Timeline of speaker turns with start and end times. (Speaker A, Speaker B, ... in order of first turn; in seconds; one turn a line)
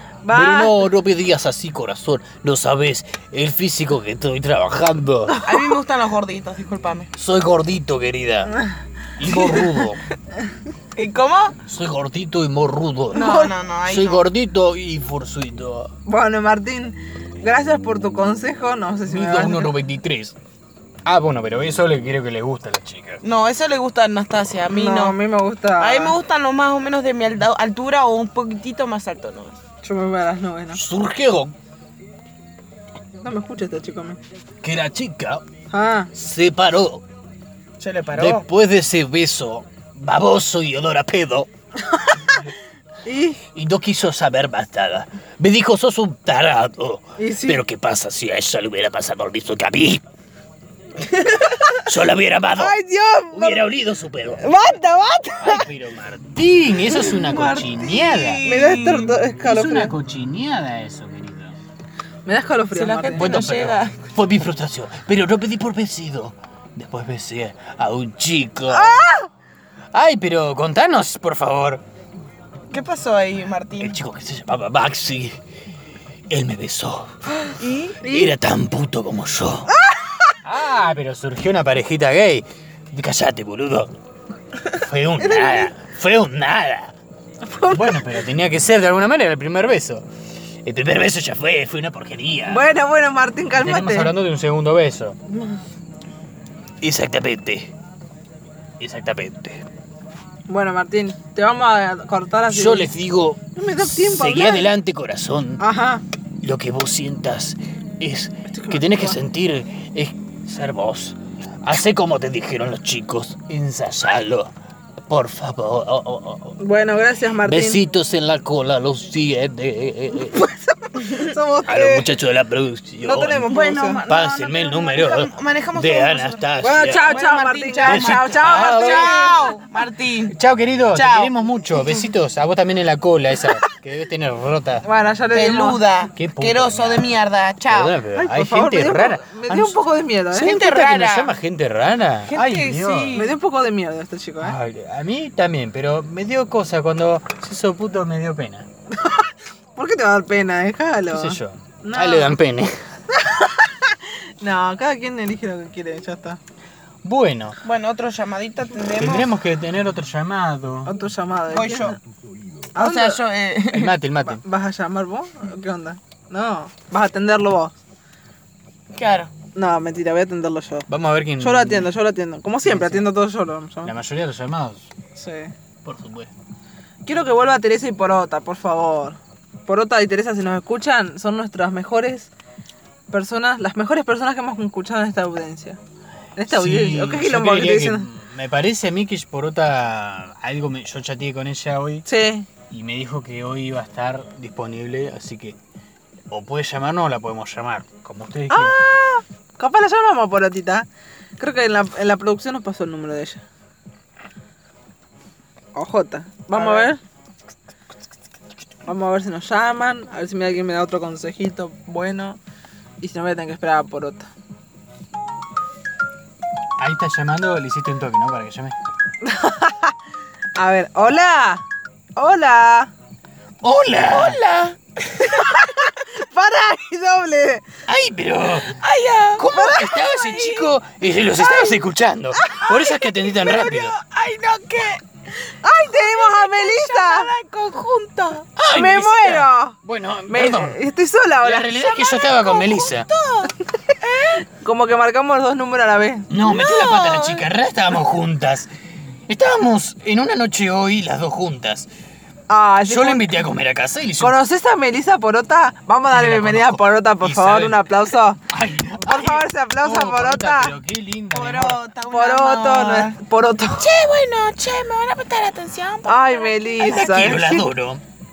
Speaker A: 0.2-0.9
Speaker B: 0.3-5.4
Speaker C: 5.4-7.1
Speaker B: 7.1-8.6
Speaker B: 9.2-10.0
Speaker C: 10.9-11.6
Speaker B: 11.6-15.9
Speaker C: 13.1-14.3
Speaker A: 16.1-19.8
Speaker B: 19.1-20.4
Speaker B: 21.1-23.2
Speaker C: 23.2-25.2
Speaker A: 24.7-26.2
Speaker C: 25.8-29.6
Speaker A: 29.8-30.8
Speaker B: 30.7-31.5
Speaker A: 33.2-34.2
Speaker B: 34.6-35.5
Speaker A: 35.7-36.1
Speaker B: 36.1-37.0
Speaker C: 37.8-38.5
Speaker B: 38.1-41.5
Speaker A: 41.9-42.4
Speaker A: 43.0-43.4
Speaker B: 43.5-50.0
Speaker A: 47.2-47.6
Speaker C: 51.2-51.6
Speaker B: 51.8-52.8
Speaker A: 52.6-53.7
Speaker B: 53.3-54.5
Speaker A: 54.4-55.7
Speaker B: 55.4-58.4
Speaker C: 56.9-59.2
Speaker A: 58.4-60.0
Speaker B: 59.4-61.6
Speaker A: 62.3-63.4
Speaker C: 62.7-64.0
Speaker B: 63.2-69.1
Speaker A: 68.7-69.3
Speaker B: 69.9-71.8
Speaker C: 72.7-74.0
Speaker B: 73.8-75.4
Speaker B: 76.3-77.3
Speaker C: 77.5-78.0
Speaker A: 78.0-78.3
Speaker B: 78.0-79.7
Speaker A: 79.7-80.4
Speaker B: 80.4-83.9
Speaker B: 84.7-87.0
Speaker A: 85.2-85.7
Speaker A: 87.4-88.2
Speaker B: 87.7-90.1
Speaker B: 90.6-92.7
Speaker A: 92.5-94.1
Speaker B: 93.5-95.2
Speaker A: 95.3-95.6
Speaker B: 96.8-97.7
Speaker B: 98.8-99.7
Speaker A: 100.5-103.0
Speaker B: 102.5-105.6
Speaker A: 103.5-104.7
Speaker A: 105.6-106.0
Speaker B: 106.4-114.5
Speaker A: 108.5-109.2
Speaker B: 115.1-116.6
Speaker A: 116.6-117.8
Speaker B: 117.4-120.5
Speaker A: 120.3-122.1
Speaker B: 121.7-123.5
Speaker A: 123.0-124.0
Speaker C: 123.5-130.4
Speaker B: 124.1-127.2
Speaker A: 126.6-129.5
Speaker B: 127.8-129.3
Speaker B: 130.3-134.8
Speaker C: 130.9-131.3
Speaker A: 134.8-135.8
Speaker C: 135.3-138.0
Speaker B: 136.2-143.2
Speaker A: 138.2-140.6
Speaker C: 140.3-141.3
Speaker C: 142.3-143.4
Speaker A: 143.1-144.6
Speaker B: 144.4-148.7
Speaker A: 149.0-152.4
Speaker B: 151.1-152.8
Speaker A: 153.1-156.4
Speaker B: 157.0-157.6
Speaker C: 157.6-159.3
Speaker B: 158.9-160.9
Speaker A: 160.9-162.0
Speaker C: 161.5-162.0
Speaker A: 162.8-163.2
Speaker C: 162.8-163.9
Speaker B: 163.7-164.4
Speaker A: 164.2-167.8
Speaker C: 168.9-169.3
Speaker A: 169.6-173.9
Speaker B: 170.9-171.9
Speaker B: 172.6-173.1
Speaker B: 173.8-174.9
Speaker A: 175.2-175.5
Speaker B: 175.8-176.3
Speaker A: 177.1-182.3
Speaker A: 183.1-185.8
Speaker A: 186.4-188.1
Speaker B: 186.5-192.1
Speaker A: 192.1-192.5
Speaker B: 192.7-195.6
Speaker B: 196.3-198.8
Speaker A: 198.5-200.9
Speaker A: 201.4-203.4
Speaker A: 205.8-207.0
Speaker A: 208.9-212.4
Speaker A: 213.0-214.3
Speaker B: 216.8-218.8
Speaker A: 219.2-220.0
Speaker A: 220.6-221.7
Speaker A: 222.2-222.9
Speaker B: 223.6-224.4
Speaker C: 224.1-225.9
Speaker A: 225.3-227.7
Speaker B: 227.9-228.8
Speaker C: 228.6-231.9
Speaker B: 229.3-233.9
Speaker A: 229.5-229.8
Speaker C: 232.5-235.0
Speaker A: 235.6-237.3
Speaker C: 235.8-238.5
Speaker B: 238.6-240.8
Speaker A: 238.7-239.8
Speaker A: 240.3-241.7
Speaker B: 241.4-243.1
Speaker C: 241.7-244.4
Speaker A: 244.5-246.3
Speaker B: 246.3-248.7
Speaker C: 246.4-247.5
Speaker B: 249.3-251.9
Speaker A: 252.5-253.4
Speaker B: 252.8-254.4
Speaker A: 254.2-258.4
Speaker B: 256.1-261.8
Speaker A: 259.0-260.7
Speaker C: 261.3-263.2
Speaker A: 262.1-263.9
Speaker C: 263.8-267.4
Speaker A: 266.1-267.7
Speaker B: 266.8-268.0